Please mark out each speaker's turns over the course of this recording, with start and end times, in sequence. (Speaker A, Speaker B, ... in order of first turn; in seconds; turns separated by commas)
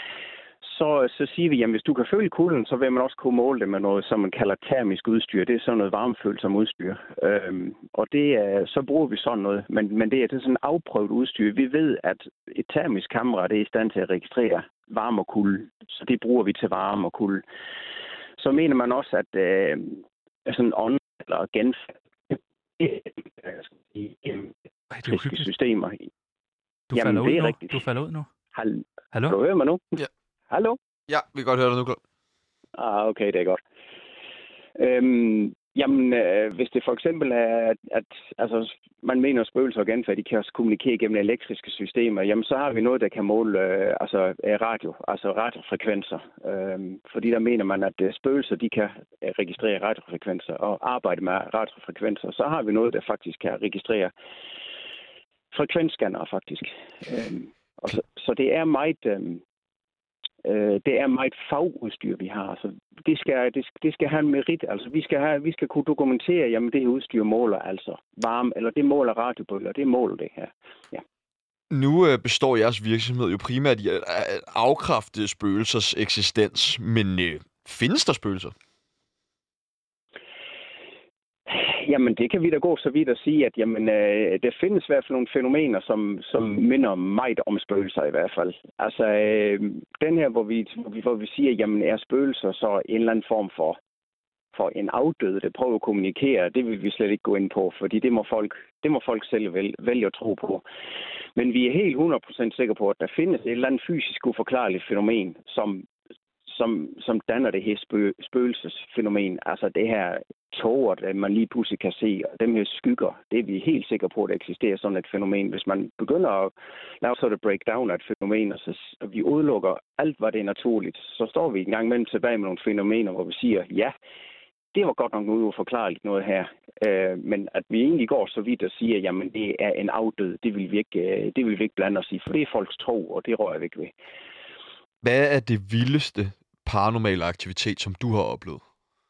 Speaker A: 0.6-17.4, Speaker A: 18.4-24.5, Speaker B: 24.9-25.5, Speaker A: 25.1-26.0, Speaker B: 26.9-28.3, Speaker A: 26.9-27.8, Speaker A: 28.5-30.0, Speaker A: 30.5-30.8, Speaker C: 31.1-32.0, Speaker A: 32.8-33.6, Speaker A: 34.8-54.1, Speaker A: 55.5-59.4, Speaker A: 60.4-71.0, Speaker C: 71.7-78.5, Speaker A: 81.5-93.8, Speaker A: 94.5-100.7, Speaker A: 101.4-105.8, Speaker A: 106.5-123.9, Speaker A: 124.7-133.9, Speaker C: 135.0-138.6